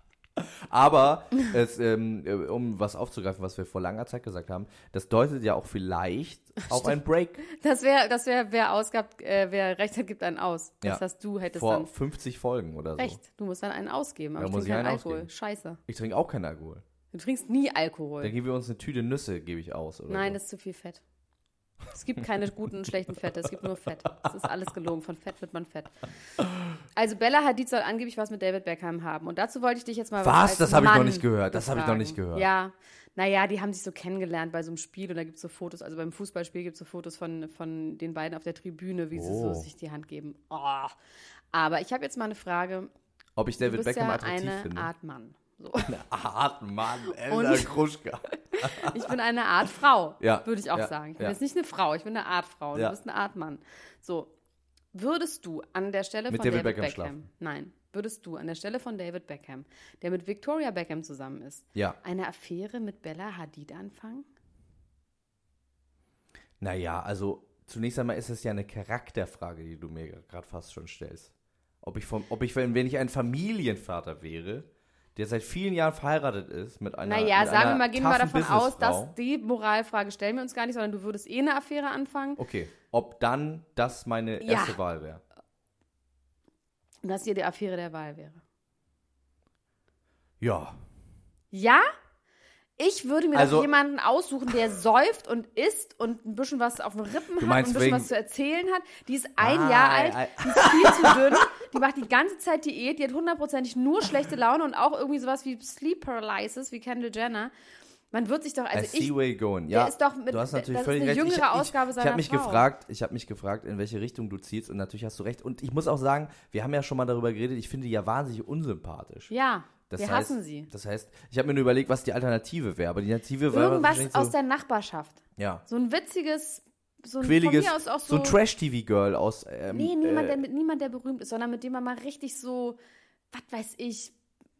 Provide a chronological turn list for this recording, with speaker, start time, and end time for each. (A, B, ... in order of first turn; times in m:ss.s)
0:00.4-0:07.4 A
0:06.7-0:11.9 B
0:10.8-0:13.2 A
0:13.0-0:15.8 B
0:14.4-0:15.3 A
0:15.9-0:16.8 A
0:17.1-0:18.3 B
0:18.2-0:20.4 A
0:20.1-0:21.0 B
0:21.9-0:26.0 B
0:26.9-0:40.9 B
0:30.2-0:32.5 A
0:39.1-0:39.7 A
0:41.5-0:42.9 B
0:43.4-0:44.9 A
0:43.6-0:45.9 B
0:45.8-0:49.1 A
0:47.3-0:47.7 B
0:48.4-0:54.3 B
0:50.2-0:51.4 A
0:54.9-1:04.3 B
0:56.3-0:57.2 A
1:06.6-1:19.1 A
1:17.0-1:22.4 B
1:22.4-1:25.2 A
1:24.4-1:24.8 B
1:27.0-1:28.4 B
1:30.4-1:30.8 A
1:31.5-1:31.9 B
1:32.8-1:47.5 B
1:33.3-1:33.7 A
1:37.4-1:38.1 A
1:39.4-1:41.5 A
1:48.1-1:49.1 B
1:48.7-1:59.3 A
1:49.7-1:52.6 B
1:59.3-2:00.7 B
1:59.9-2:04.3 A
2:03.5-2:08.4 B
2:05.4-2:05.6 A
2:07.2-2:10.4 A
2:09.7-2:12.8 B
2:13.3-2:14.1 B